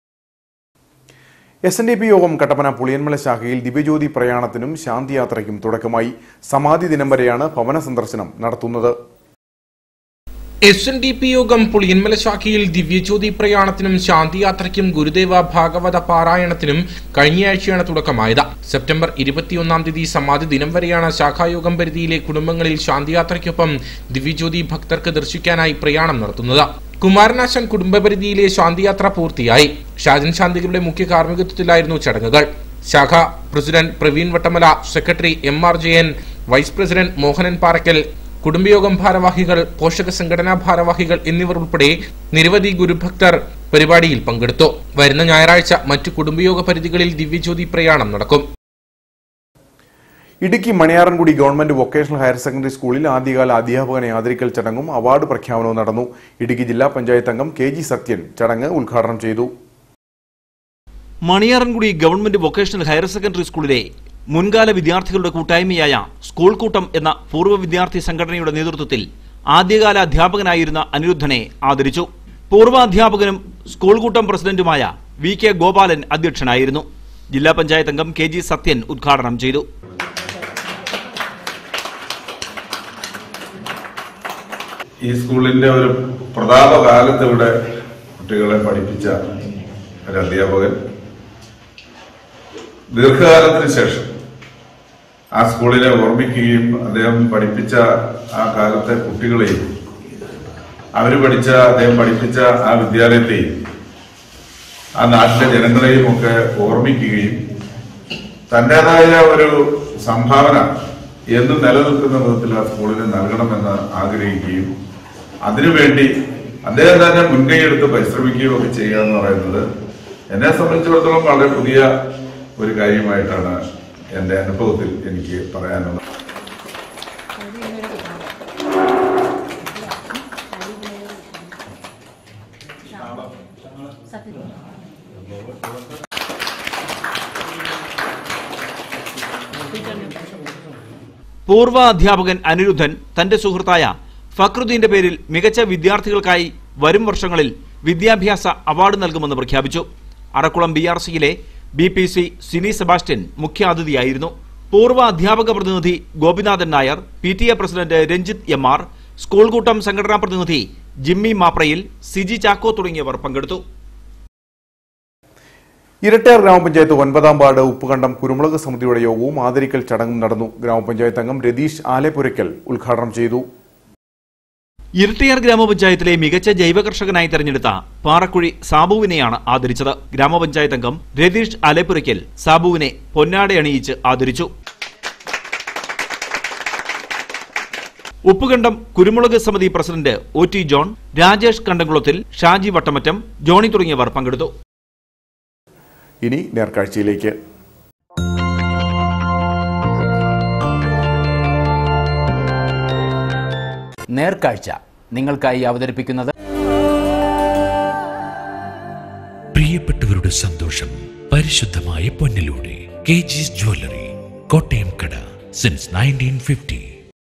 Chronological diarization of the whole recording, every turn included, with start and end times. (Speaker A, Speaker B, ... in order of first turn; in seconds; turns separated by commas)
Speaker A: 1.7-8.9, Speaker B: 10.7-48.4, Speaker A: 50.4-59.5, Speaker C: 61.3-79.7, Speaker D: 85.0-87.5, Speaker D: 88.2-89.2, Speaker D: 90.1-90.8, Speaker D: 92.9-94.1, Speaker D: 95.4-97.8, Speaker D: 98.3-99.6, Speaker D: 101.0-103.5, Speaker D: 105.0-107.4, Speaker D: 108.5-110.7, Speaker D: 111.3-114.7, Speaker D: 115.5-116.1, Speaker D: 116.7-119.7, Speaker D: 120.3-121.9, Speaker D: 122.6-123.6, Speaker D: 124.1-126.0, Speaker C: 141.5-163.6, Speaker A: 166.0-173.4, Speaker C: 175.0-184.5, Speaker C: 188.3-194.5, Speaker A: 196.2-197.4, Speaker E: 204.1-206.3, Speaker F: 209.5-216.9